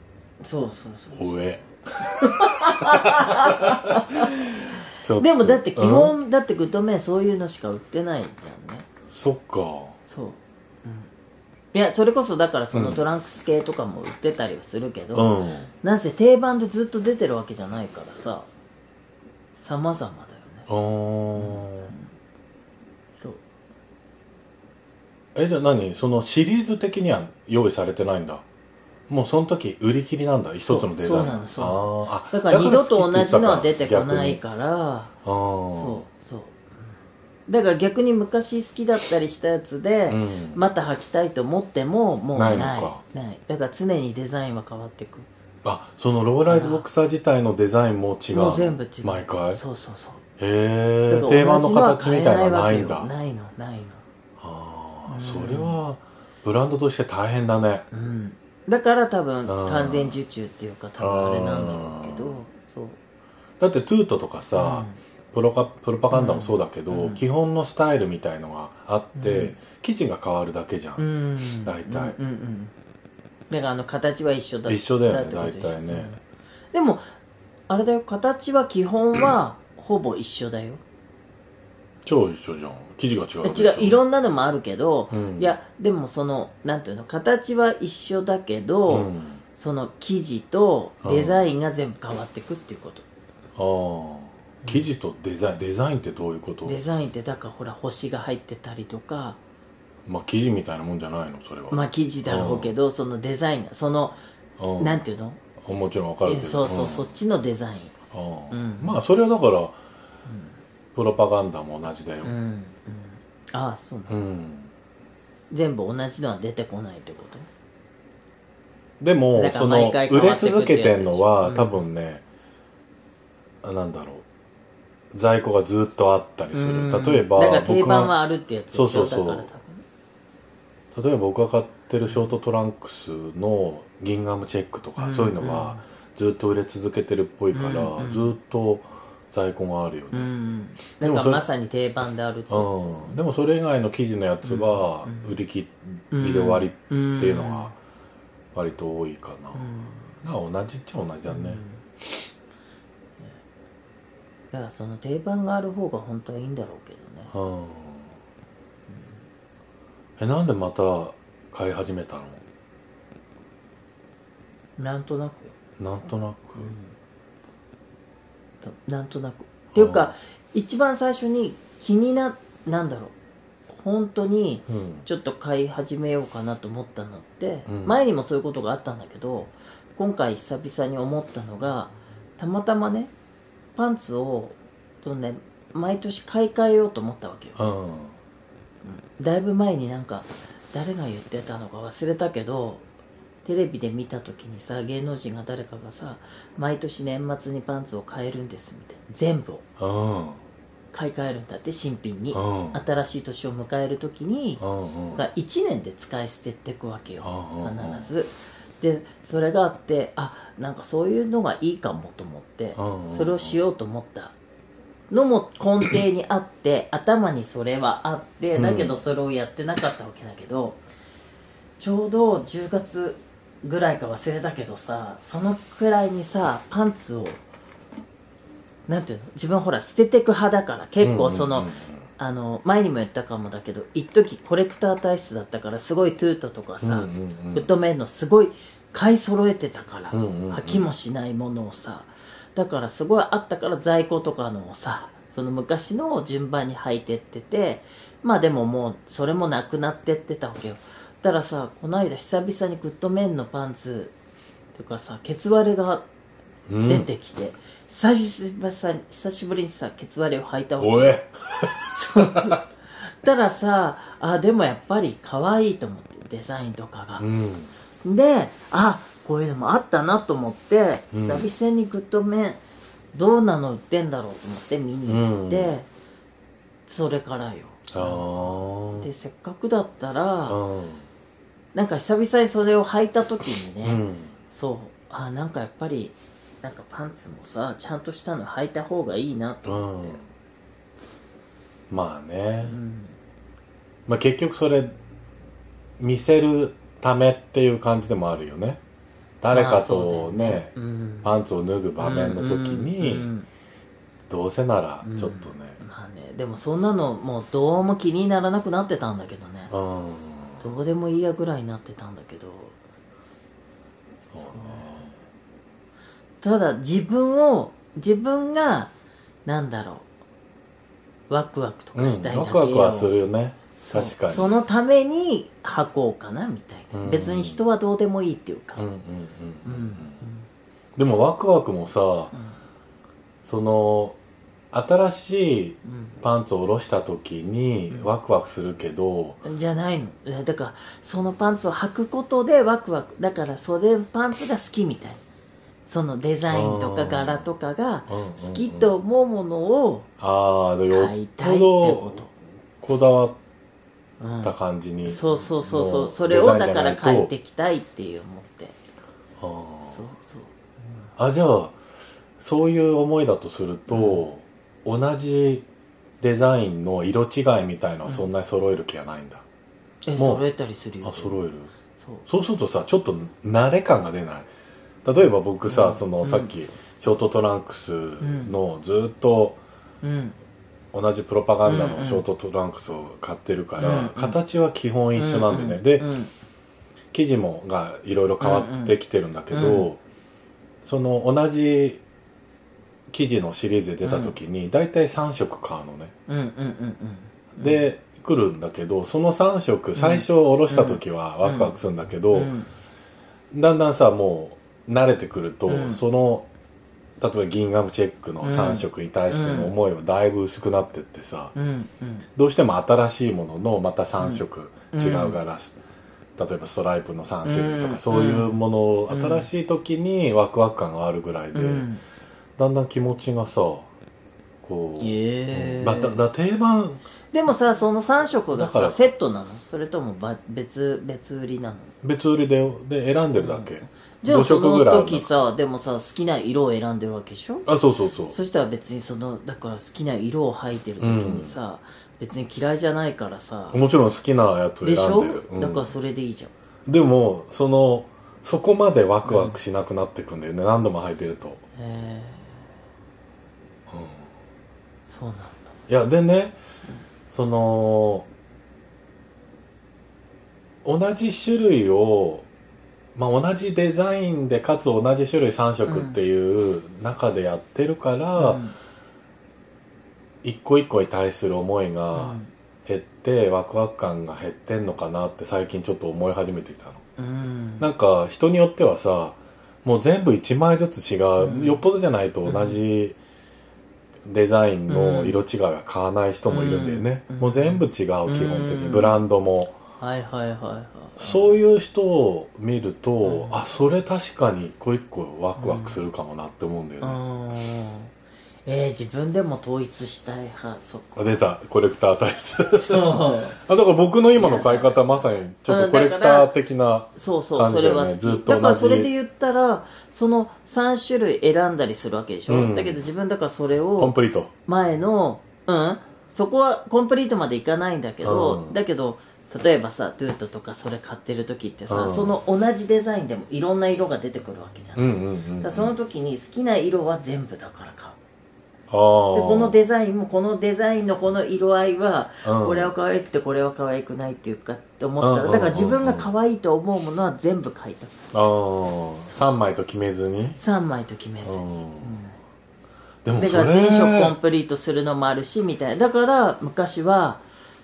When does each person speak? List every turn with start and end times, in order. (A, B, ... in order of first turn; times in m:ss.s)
0:00.4-0:01.5 A
0:01.1-0:06.2 B
0:02.0-0:04.6 A
0:05.2-0:08.9 A
0:09.1-0:10.0 B
0:10.1-0:11.1 A
0:11.7-0:18.5 A
0:12.7-0:13.0 B
0:15.1-0:15.7 B
0:19.6-0:20.7 A
0:20.7-0:21.9 B
0:21.4-0:22.1 A
0:25.4-0:28.4 B
0:29.1-0:34.4 B
0:30.6-0:35.1 A
0:35.2-0:36.0 B
0:35.7-0:36.8 A
0:37.5-0:45.3 A
0:40.1-0:40.6 B
0:42.4-0:43.0 B
0:45.6-0:49.6 B
0:46.5-0:46.8 A
0:48.3-0:50.2 A
0:50.4-0:53.1 B
0:51.1-0:54.0 A
0:54.4-0:57.9 B
0:55.1-0:55.8 A
0:57.9-1:03.0 A
0:59.5-1:00.2 B
1:01.0-1:02.4 B
1:03.6-1:11.0 B
1:04.6-1:05.0 A
1:06.1-1:07.2 A
1:09.2-1:09.6 A
1:11.0-1:12.7 A
1:11.6-1:12.2 B
1:13.5-1:16.2 A
1:14.7-1:16.2 B
1:16.7-1:17.0 A
1:17.7-1:20.8 A
1:22.0-1:24.0 B
1:23.4-1:33.1 A
1:25.1-1:25.5 B
1:28.9-1:29.4 B
1:31.0-1:31.4 B
1:33.6-1:36.8 B
1:36.6-1:39.4 A
1:40.1-1:42.7 B
1:41.7-1:44.2 A
1:44.6-1:45.0 B
1:44.8-1:45.4 A
1:45.6-1:47.2 B
1:46.2-1:47.9 A
1:48.1-1:49.8 B
1:48.5-1:49.0 A
1:50.3-1:50.6 A
1:51.0-1:52.3 B
1:52.2-1:54.2 A
1:54.1-1:54.7 B
1:55.5-1:57.5 A
1:59.0-2:02.2 B
1:59.4-2:01.8 A
2:03.6-2:04.2 B
2:05.1-2:08.1 B
2:06.5-2:09.8 A
2:08.7-2:09.5 B
2:10.9-2:20.3 B
2:15.0-2:15.8 A
2:17.5-2:18.3 A
2:20.1-2:23.2 A
2:21.0-2:21.4 B
2:22.5-2:27.8 B
2:24.4-2:25.4 A
2:26.1-2:27.7 A
2:28.5-2:29.6 B
2:29.6-2:30.1 A
2:30.2-2:32.2 B
2:31.3-2:31.8 A
2:34.5-2:37.3 A
2:37.3-2:38.2 B
2:40.2-2:42.4 B
2:44.8-2:45.5 A
2:45.8-2:46.8 B
2:46.6-2:46.9 A
2:48.6-2:53.1 A
2:49.7-2:50.1 B
2:53.7-3:03.1 A
2:54.7-2:55.1 B
2:57.7-2:58.0 B
3:03.8-3:07.6 A
3:07.6-3:08.2 B
3:08.8-3:12.8 A
3:13.4-3:19.6 A
3:19.8-3:20.4 B
3:20.9-3:34.4 A
3:22.3-3:22.8 B
3:24.6-3:25.2 B
3:27.2-3:28.1 B
3:32.8-3:33.6 B
3:35.1-3:40.8 A
3:38.6-3:39.0 B
3:41.8-3:47.4 A
3:48.9-4:14.1 A
3:51.0-3:52.0 B
3:56.8-3:57.7 B
4:00.1-4:00.9 B
4:14.8-4:16.0 A
4:16.7-4:17.1 B
4:16.9-4:21.2 A
4:20.8-4:22.6 B
4:21.8-4:27.3 A
4:27.2-4:27.7 B
4:28.0-4:32.6 A
4:31.1-4:31.5 B
4:33.1-4:35.9 A
4:35.1-4:35.8 B
4:36.9-4:40.6 A
4:37.9-4:39.1 B
4:40.5-4:41.1 B
4:41.7-4:50.2 A
4:43.8-4:44.4 B
4:49.6-4:50.3 B
4:51.9-4:52.8 B
4:52.6-4:53.2 A
4:54.1-4:55.0 B
4:56.0-4:58.8 B
4:59.4-5:00.7 B
4:59.5-5:01.3 A
5:01.2-5:03.3 B
5:02.0-5:03.5 A
5:04.3-5:05.8 B
5:05.0-5:09.7 A
5:09.7-5:10.7 B
5:10.6-5:12.8 A
5:14.3-5:15.2 B
5:14.3-5:15.0 A
5:16.4-5:18.9 A
5:19.5-5:20.1 A
5:21.3-5:23.1 A
5:22.0-5:24.5 B
5:23.8-5:28.8 A
5:26.9-5:27.6 B
5:28.8-5:30.2 B
5:29.6-5:30.5 A
5:31.0-5:32.3 B
5:33.4-5:34.2 B
5:34.7-5:39.4 B
5:35.8-5:36.2 A
5:39.4-5:45.2 A
5:45.9-5:50.1 A
5:46.5-5:47.4 B
5:48.1-5:48.9 B
5:50.2-5:52.3 B
5:50.9-5:52.3 A
5:52.8-5:53.4 B
5:54.2-5:54.5 A
5:54.4-5:57.3 B
5:55.1-5:58.8 A
5:59.4-6:00.0 B
5:59.9-6:01.1 A
6:01.2-6:01.8 B
6:02.4-6:05.7 B
6:03.9-6:04.2 A
6:06.2-6:09.4 B
6:10.0-6:11.4 A
6:10.2-6:10.4 B
6:11.0-6:11.7 B
6:12.0-6:12.2 A
6:12.3-6:14.5 B
6:15.0-6:19.6 B
6:15.7-6:16.5 A
6:18.2-6:18.5 A
6:20.0-6:20.4 A
6:20.9-6:26.1 B
6:21.6-6:22.2 A
6:23.8-6:24.4 A
6:25.2-6:26.3 A
6:27.1-6:30.0 B
6:28.4-6:29.0 A
6:29.5-6:29.9 A
6:30.8-6:32.0 B
6:33.1-6:36.1 B
6:34.0-6:34.4 A
6:36.3-6:37.8 A
6:37.6-6:42.5 B
6:40.0-6:41.7 A
6:42.3-6:42.7 A
6:43.5-6:46.5 B
6:45.7-6:46.0 A
6:47.2-6:51.5 B
6:48.4-6:49.7 A
6:51.6-6:52.3 A
6:52.4-6:55.7 B
6:54.2-6:55.4 A
6:56.4-7:01.9 B
6:57.4-6:59.5 A
7:01.5-7:02.0 A
7:02.6-7:03.9 B
7:04.6-7:07.0 B
7:05.0-7:06.2 A
7:07.3-7:11.9 A
7:08.5-7:09.1 B
7:12.0-7:15.3 B
7:13.4-7:17.7 A
7:17.7-7:18.4 B
7:18.3-7:23.8 A
7:21.0-7:21.6 B
7:23.7-7:25.9 B
7:24.8-7:26.5 A
7:26.9-7:31.6 B
7:29.2-7:29.6 A
7:31.8-7:32.7 A
7:33.9-7:34.3 B
7:35.1-7:35.8 A
7:35.9-7:36.6 B
7:37.3-7:38.3 B
7:40.8-7:42.5 B
7:43.2-7:48.6 B
7:45.9-7:46.2 A
7:48.4-7:48.8 A
7:50.4-7:57.0 B
7:52.1-7:52.5 A
7:57.2-7:57.9 A
7:57.8-8:03.2 B
8:01.4-8:01.8 A
8:02.4-8:02.8 A
8:04.3-8:09.8 B
8:04.9-8:05.4 A
8:06.5-8:09.2 A
8:10.0-8:11.6 A
8:11.2-8:17.2 B
8:13.2-8:13.6 A
8:15.6-8:16.0 A
8:17.0-8:18.1 A
8:18.7-8:21.4 A
8:21.2-8:29.1 B
8:22.8-8:23.6 A
8:24.4-8:26.5 A
8:27.2-8:34.2 A
8:32.5-8:33.1 B
8:34.0-8:34.5 B
8:34.7-8:48.2 A
8:38.2-8:38.8 B
8:41.9-8:42.4 B
8:45.0-8:45.9 B
8:48.9-8:49.8 B
8:49.3-8:58.2 A
8:52.4-8:52.9 B
8:55.2-8:56.3 B
8:58.3-9:00.6 B
9:00.6-9:02.4 A
9:01.4-9:02.2 B
9:03.2-9:04.4 B
9:03.4-9:07.4 A